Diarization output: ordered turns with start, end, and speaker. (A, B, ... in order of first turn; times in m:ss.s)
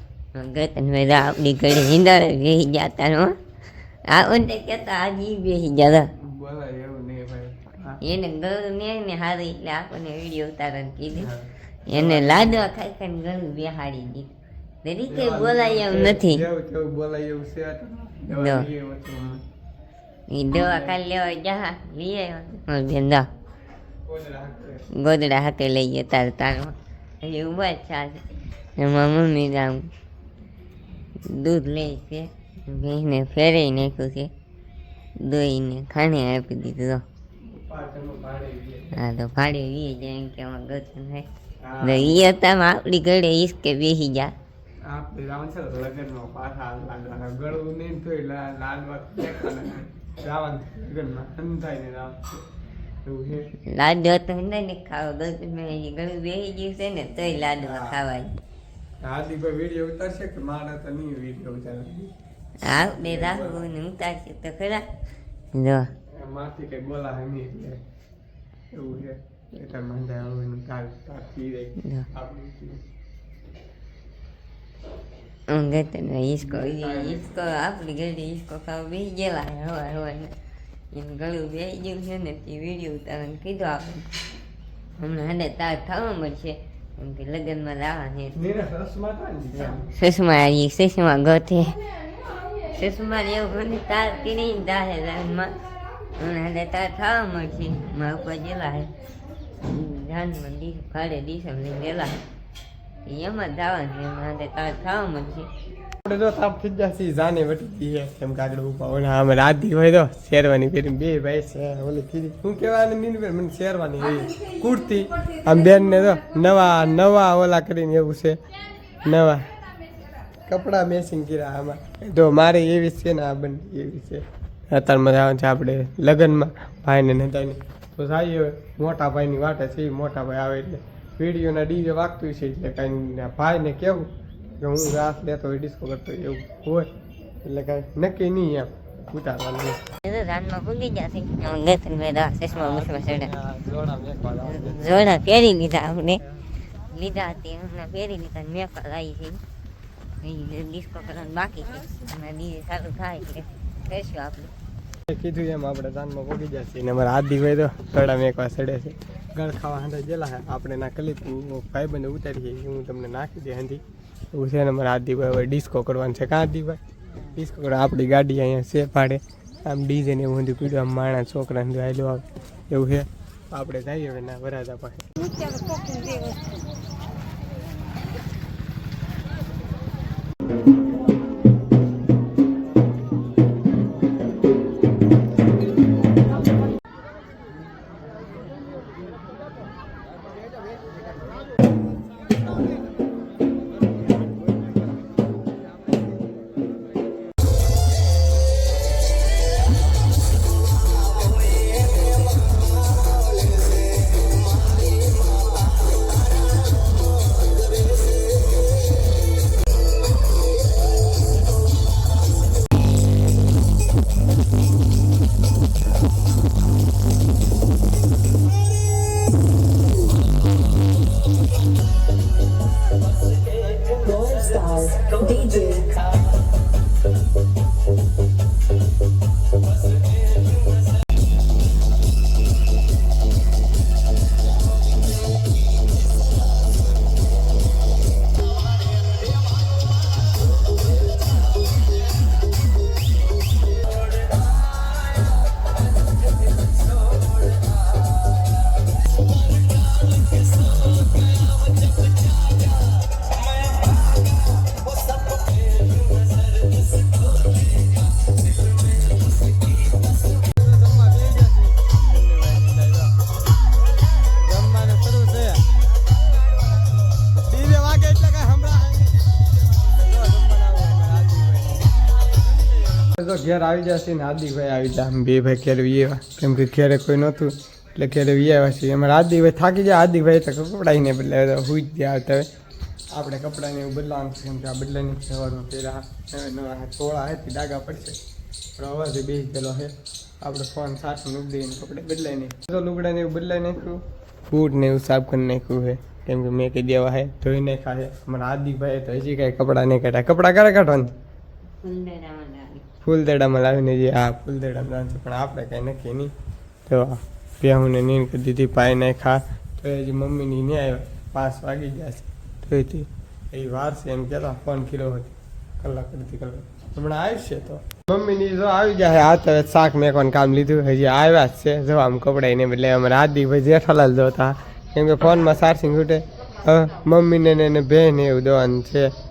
0:00.4-0:03.4 A
0:04.1-0:06.1 A
0:06.2-0:08.0 B
0:08.0-0:11.3 A
0:11.2-0:12.7 B
0:11.9-0:14.3 A
0:14.8-0:16.4 A
0:15.1-0:19.4 B
0:18.3-0:18.7 A
0:20.3-0:23.3 A
0:20.5-0:21.0 B
0:24.1-0:24.8 B
0:24.9-0:28.2 A
0:28.8-0:29.9 A
0:31.3-0:34.3 A
0:35.2-0:37.0 A
0:37.5-0:39.0 B
0:39.0-0:41.3 A
0:41.6-0:42.3 B
0:41.8-0:44.3 A
0:44.8-0:52.4 B
0:53.0-0:53.5 B
0:53.7-0:58.3 A
0:57.6-0:58.0 B
0:59.0-1:02.1 B
1:02.6-1:04.9 A
1:02.6-1:03.7 B
1:05.5-1:05.9 A
1:06.2-1:07.8 B
1:08.7-1:12.8 B
1:11.8-1:12.1 A
1:15.5-1:20.3 A
1:16.4-1:17.3 B
1:20.9-1:24.1 A
1:25.0-1:28.4 A
1:28.3-1:29.9 B
1:29.5-1:31.8 A
1:32.5-1:35.7 A
1:36.2-1:38.9 A
1:39.6-1:42.2 A
1:43.1-1:45.5 A
1:46.0-1:58.4 B
1:59.0-1:59.5 B
2:00.5-2:16.9 B
2:17.4-2:19.8 B
2:20.0-2:23.3 A
2:22.5-2:25.2 B
2:24.4-2:26.2 A
2:26.9-2:29.4 A
2:30.2-2:34.5 A
2:35.1-2:43.8 B
2:44.3-2:55.4 B
2:55.7-2:56.2 C
3:44.1-3:46.0 C
4:20.4-4:23.2 B
4:24.2-4:25.7 B
4:27.3-4:42.5 B
4:43.1-4:48.2 B
4:48.8-5:01.1 B
5:01.8-5:02.9 A
5:03.0-5:06.3 B
5:06.9-5:29.1 B